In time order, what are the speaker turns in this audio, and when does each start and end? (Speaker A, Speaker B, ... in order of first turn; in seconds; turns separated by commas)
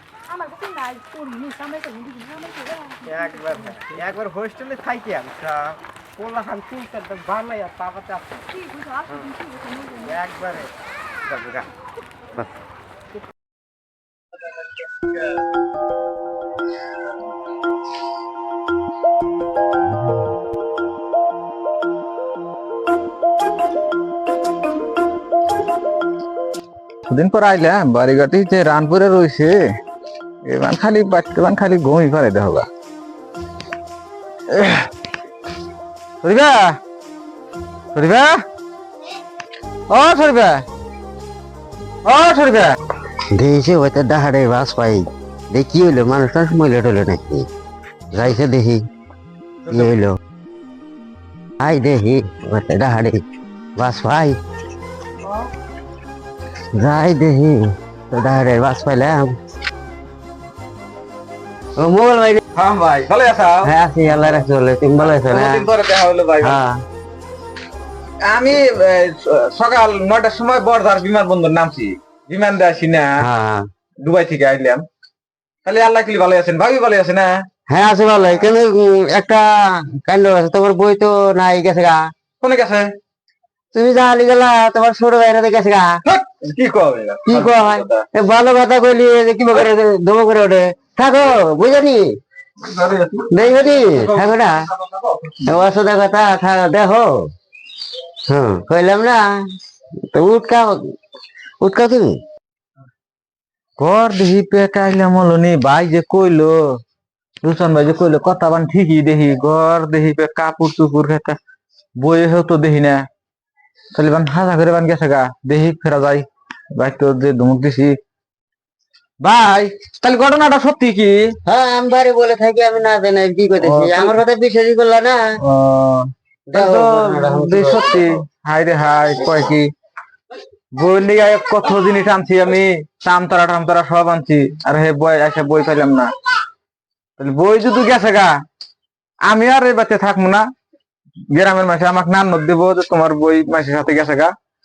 Speaker A: 0.3-3.9, Speaker B: 3.0-8.4, Speaker A: 8.5-10.2, Speaker B: 10.0-10.7, Speaker B: 11.2-11.7, Speaker C: 27.1-29.6, Speaker C: 30.4-32.6, Speaker C: 34.5-34.9, Speaker C: 36.2-36.7, Speaker C: 37.9-38.4, Speaker C: 39.9-40.6, Speaker C: 42.0-42.8, Speaker D: 43.3-47.5, Speaker D: 48.1-48.8, Speaker C: 49.6-49.9, Speaker D: 49.7-50.2, Speaker D: 51.6-53.2, Speaker D: 53.8-54.4, Speaker D: 56.8-59.4, Speaker D: 61.8-62.4, Speaker C: 62.5-64.5, Speaker D: 63.6-65.7, Speaker C: 65.0-66.6, Speaker D: 66.4-66.8, Speaker C: 68.2-73.2, Speaker D: 73.2-73.7, Speaker C: 74.0-74.8, Speaker C: 75.6-77.4, Speaker D: 77.7-82.1, Speaker C: 82.4-82.9, Speaker D: 83.7-86.0, Speaker C: 86.1-88.0, Speaker D: 87.2-92.2, Speaker C: 92.6-95.7, Speaker D: 93.3-94.6, Speaker D: 95.5-97.3, Speaker D: 98.3-99.3, Speaker D: 100.1-100.9, Speaker D: 101.6-102.2, Speaker C: 103.8-106.5, Speaker C: 107.4-111.3, Speaker C: 112.0-113.0, Speaker C: 113.9-116.2, Speaker C: 116.8-117.9, Speaker C: 119.2-121.2, Speaker D: 121.4-125.2, Speaker C: 123.6-124.2, Speaker C: 125.5-129.7, Speaker D: 126.5-128.2, Speaker C: 130.8-136.1, Speaker C: 137.2-138.3, Speaker C: 139.3-140.4, Speaker C: 141.3-144.3